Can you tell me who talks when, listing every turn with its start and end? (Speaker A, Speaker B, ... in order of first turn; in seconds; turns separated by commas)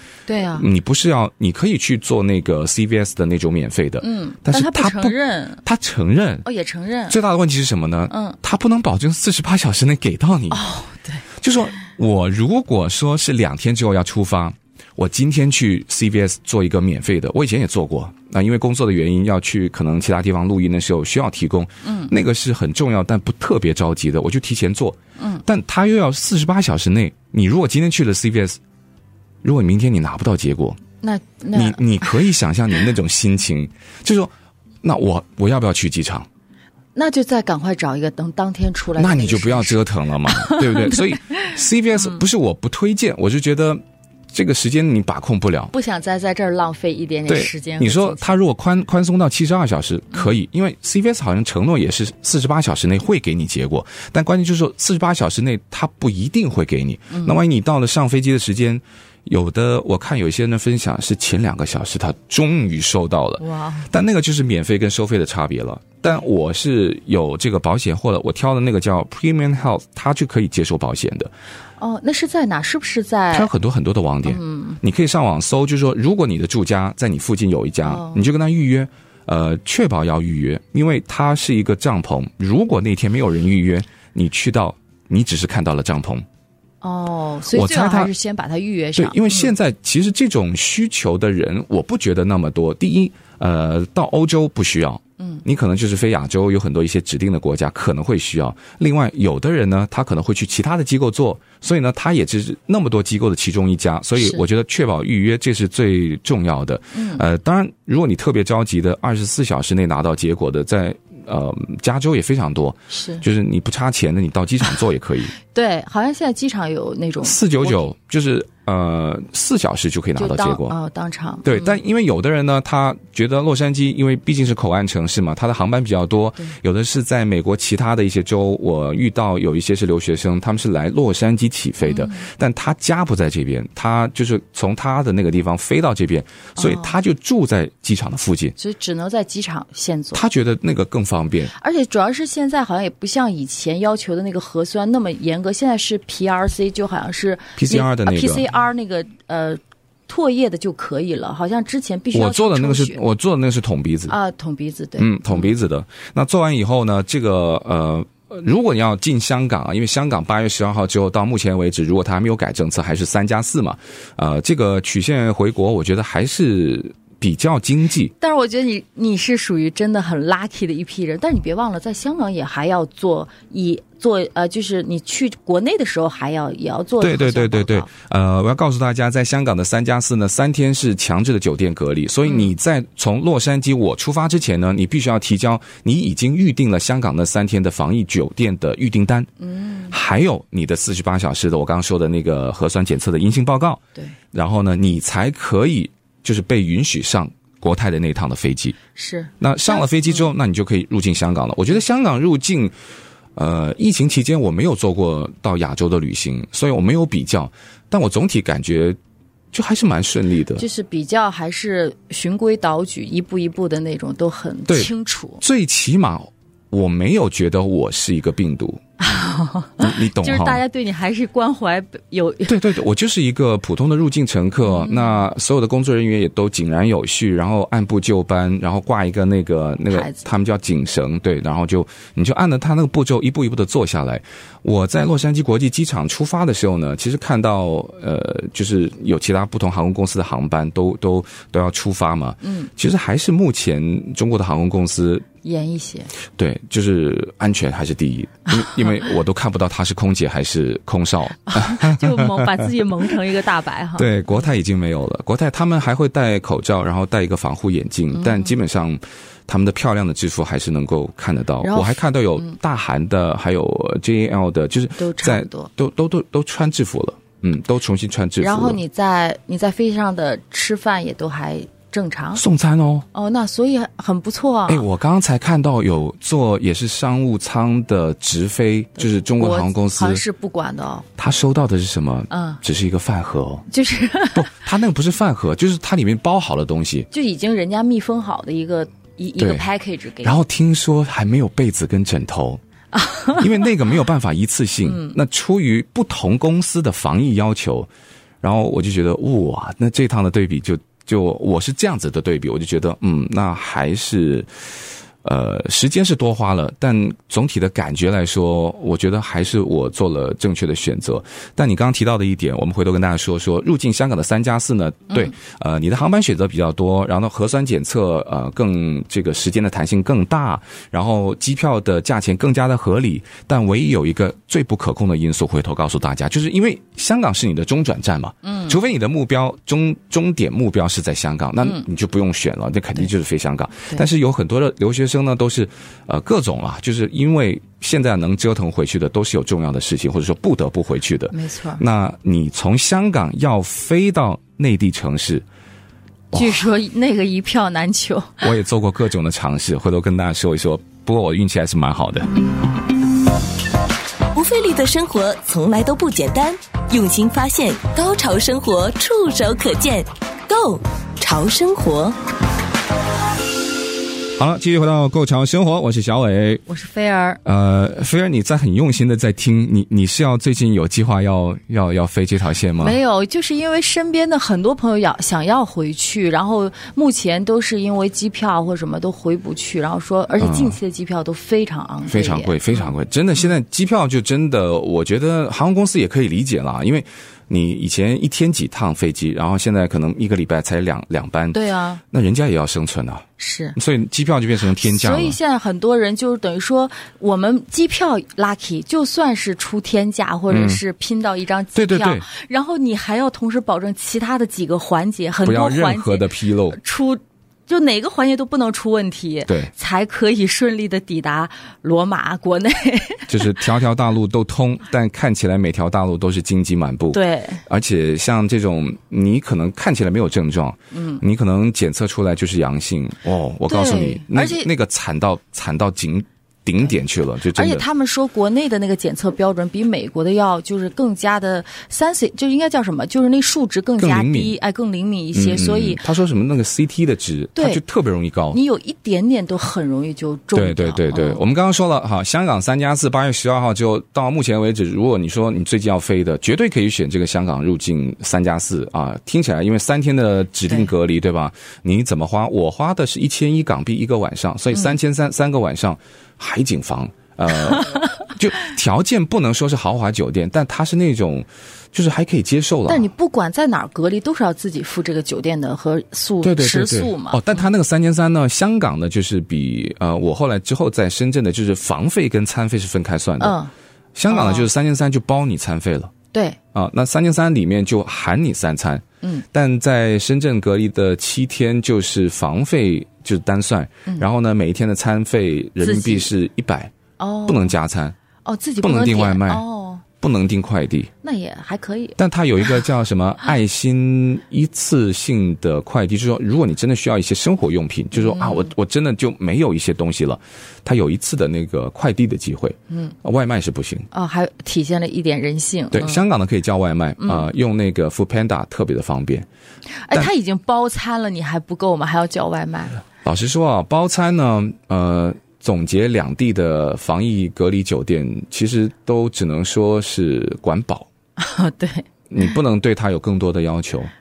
Speaker A: 0.3-0.7, Speaker B: 0.5-6.4, Speaker A: 4.0-5.6, Speaker A: 6.4-7.2, Speaker B: 7.1-10.6, Speaker A: 8.1-8.4, Speaker A: 10.5-11.2, Speaker B: 11.4-28.6, Speaker A: 21.8-22.1, Speaker A: 25.2-25.4, Speaker B: 29.4-30.8, Speaker A: 31.0-32.2, Speaker B: 31.5-36.3, Speaker A: 37.0-41.6, Speaker B: 39.0-45.7, Speaker A: 45.7-48.4, Speaker B: 47.3-71.3, Speaker A: 57.1-57.4, Speaker A: 63.4-63.9, Speaker A: 71.8-73.5, Speaker B: 73.3-86.2, Speaker A: 74.2-74.8, Speaker A: 77.8-78.3, Speaker A: 86.8-89.5, Speaker B: 87.5-88.1, Speaker B: 89.0-115.3, Speaker A: 104.2-104.4, Speaker A: 106.9-107.2, Speaker A: 112.9-113.2, Speaker A: 115.4-117.9, Speaker B: 117.2-120.8, Speaker A: 120.2-121.8, Speaker B: 121.4-138.6, Speaker A: 131.8-132.2, Speaker A: 136.6-136.9, Speaker A: 138.6-140.2, Speaker B: 140.1-141.5, Speaker A: 141.6-153.0, Speaker B: 147.6-148.5, Speaker B: 152.1-154.2, Speaker A: 154.1-155.5, Speaker B: 155.0-168.1, Speaker A: 168.2-177.9, Speaker B: 177.0-189.3, Speaker A: 182.2-182.5, Speaker A: 189.4-189.9, Speaker B: 189.9-193.8, Speaker B: 194.3-198.8, Speaker A: 198.9-200.3, Speaker B: 199.4-202.7, Speaker B: 203.3-209.0, Speaker B: 209.5-210.6, Speaker A: 210.6-215.4, Speaker B: 214.7-218.8, Speaker A: 219.0-222.6, Speaker B: 219.8-220.6, Speaker B: 222.5-245.2, Speaker A: 224.6-225.3, Speaker A: 229.9-230.2, Speaker A: 242.4-242.7, Speaker A: 245.4-246.1, Speaker B: 246.4-252.7, Speaker A: 251.5-254.4, Speaker B: 254.0-268.8, Speaker A: 258.1-258.5, Speaker A: 261.6-262.6, Speaker A: 265.0-265.7, Speaker A: 268.4-272.4, Speaker B: 272.4-273.1, Speaker A: 273.1-274.8, Speaker B: 274.7-280.2, Speaker A: 279.0-281.1, Speaker B: 281.2-283.6, Speaker A: 282.3-282.6, Speaker A: 283.7-284.5, Speaker B: 284.3-287.1, Speaker A: 287.1-290.4, Speaker B: 289.4-289.6, Speaker B: 290.2-292.6, Speaker A: 292.9-293.7, Speaker B: 293.3-297.9, Speaker A: 294.8-295.2, Speaker B: 298.4-304.5, Speaker B: 305.2-345.4, Speaker A: 328.4-328.8, Speaker A: 341.3-341.8, Speaker B: 346.3-346.6, Speaker A: 346.3-348.5, Speaker B: 348.4-352.3, Speaker C: 354.3-362.2, Speaker B: 364.4-366.6, Speaker A: 366.7-367.4, Speaker B: 367.4-373.0, Speaker A: 372.8-382.9, Speaker B: 380.4-380.8, Speaker B: 382.1-391.6, Speaker A: 391.5-392.0, Speaker B: 392.1-395.4, Speaker A: 393.4-393.8, Speaker A: 394.7-413.6, Speaker B: 400.5-400.8, Speaker B: 401.7-402.2, Speaker B: 405.4-406.8, Speaker B: 413.3-427.8, Speaker A: 417.1-417.6, Speaker A: 420.9-421.2, Speaker A: 423.7-424.7, Speaker A: 427.5-436.0, Speaker B: 434.0-434.5, Speaker B: 435.3-438.6, Speaker A: 437.6-437.8, Speaker A: 438.5-441.4, Speaker B: 440.5-463.1, Speaker A: 457.6-458.3, Speaker A: 462.9-467.6, Speaker B: 466.4-473.6, Speaker A: 473.4-473.7, Speaker B: 474.1-476.1, Speaker A: 474.3-474.7, Speaker A: 476.3-476.6, Speaker B: 476.7-486.9, Speaker A: 485.8-486.3, Speaker A: 487.2-487.8, Speaker B: 487.4-488.1, Speaker A: 488.4-490.0, Speaker B: 488.8-489.6, Speaker B: 490.2-491.1, Speaker A: 491.2-492.2, Speaker B: 492.2-504.1, Speaker A: 498.1-498.7, Speaker A: 504.1-506.2, Speaker B: 505.9-509.5, Speaker A: 507.2-507.5, Speaker A: 510.1-513.0, Speaker B: 513.2-521.1, Speaker A: 521.4-522.1, Speaker B: 522.3-524.1